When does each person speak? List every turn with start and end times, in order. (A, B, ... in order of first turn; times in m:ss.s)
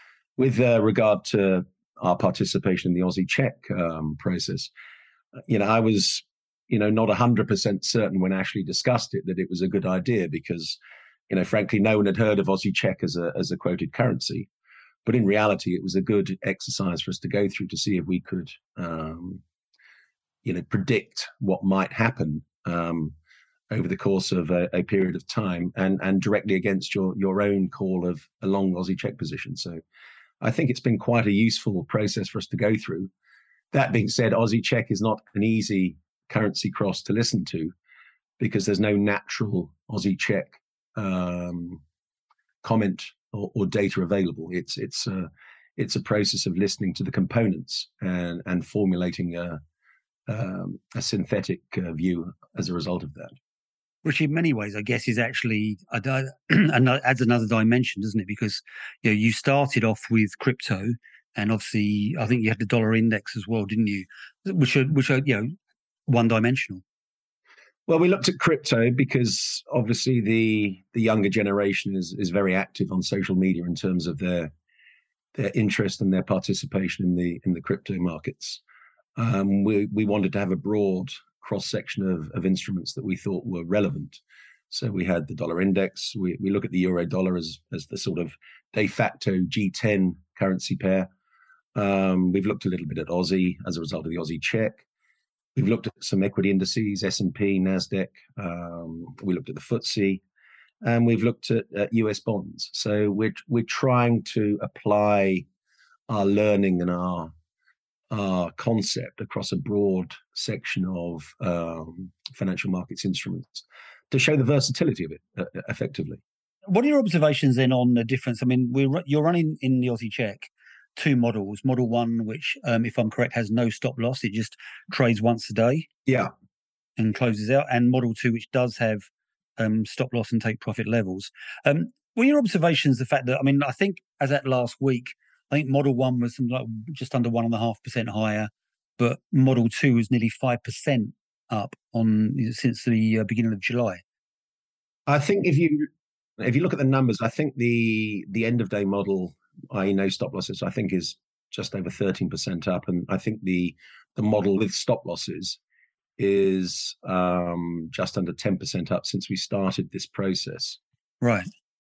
0:00.4-0:04.7 A
0:05.5-0:10.8 A
0:11.3-0:14.5 A
0:15.0-0:19.4 A
0:20.4-0:23.1 A
0:23.7-0:29.8 A
0:30.4-0:33.1 A
0:33.7-0:37.7 A
0:38.4-0:41.8 A
0:42.6-0:49.6 A
0:50.3-0:53.4 A
0:54.0-1:05.6 B
1:06.1-1:06.8 B
1:07.9-1:14.5 A
1:15.3-1:18.6 A
1:19.2-1:24.2 A
1:24.7-1:31.1 A
1:31.8-1:34.8 A
1:35.6-1:40.2 A
1:40.8-1:45.5 A
1:46.1-1:47.3 A
1:48.1-1:56.2 A
1:56.7-2:05.9 B
2:06.1-2:06.3 A
2:07.0-2:09.1 B
2:09.6-2:24.0 B
2:25.1-2:35.6 A
2:36.2-2:40.8 A
2:41.2-2:41.5 B